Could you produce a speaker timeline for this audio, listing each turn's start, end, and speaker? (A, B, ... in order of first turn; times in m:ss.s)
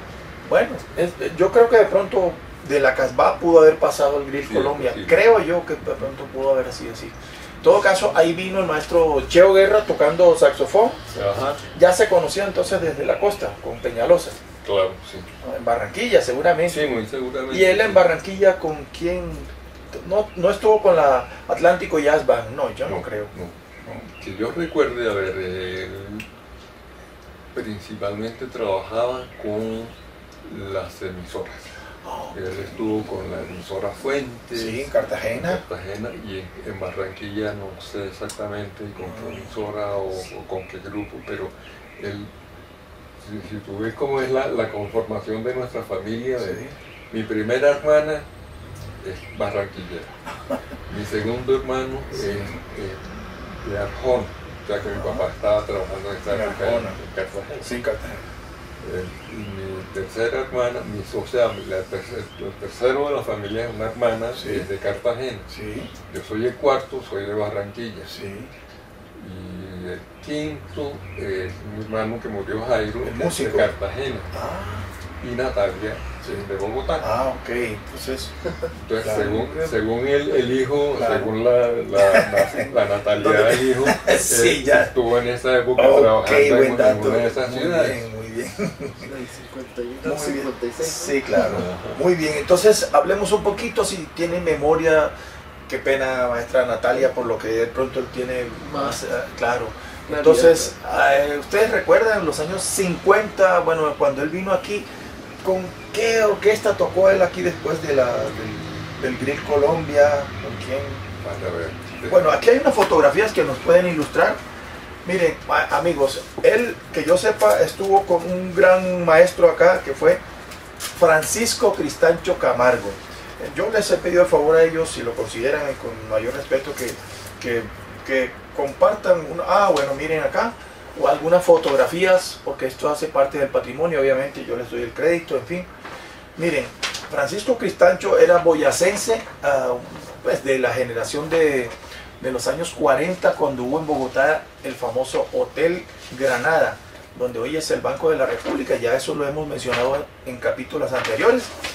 0:00.4-0:11.0 A
0:04.4-0:05.2 B
0:11.1-0:11.6 B
0:11.7-0:14.4 A
0:14.6-0:15.3 B
0:15.4-0:16.8 A
0:16.6-0:18.0 B
0:17.5-0:23.3 A
0:22.8-0:26.3 B
0:27.5-0:29.9 B
0:30.4-0:31.8 B
0:32.0-0:32.7 A
0:32.3-0:42.3 B
0:34.5-0:35.6 A
0:39.0-0:39.5 A
0:43.2-0:48.2 B
0:46.4-0:46.7 A
0:49.0-0:50.2 B
0:50.9-0:57.7 B
0:52.1-0:52.6 A
0:54.8-0:55.2 A
0:56.3-0:57.0 A
0:57.6-0:58.2 A
0:58.8-1:05.5 B
1:04.3-1:04.7 A
1:05.5-1:05.9 A
1:06.1-1:08.1 B
1:08.0-1:08.5 A
1:09.2-1:14.3 B
1:13.0-1:13.7 A
1:14.3-1:14.9 A
1:15.2-1:17.0 B
1:17.0-1:18.3 A
1:18.7-1:28.1 B
1:19.0-1:19.7 A
1:20.9-1:21.3 A
1:22.0-1:22.6 A
1:23.1-1:24.9 A
1:25.7-1:29.1 A
1:29.0-1:31.3 C
1:30.0-1:35.1 A
1:31.4-1:32.0 B
1:35.7-1:44.9 A
1:38.6-1:39.0 C
1:40.1-1:40.7 C
1:45.4-1:51.0 A
1:51.2-1:52.4 B
1:52.1-1:54.4 A
1:55.0-2:00.2 A
2:00.9-2:15.7 A
2:16.4-2:31.5 A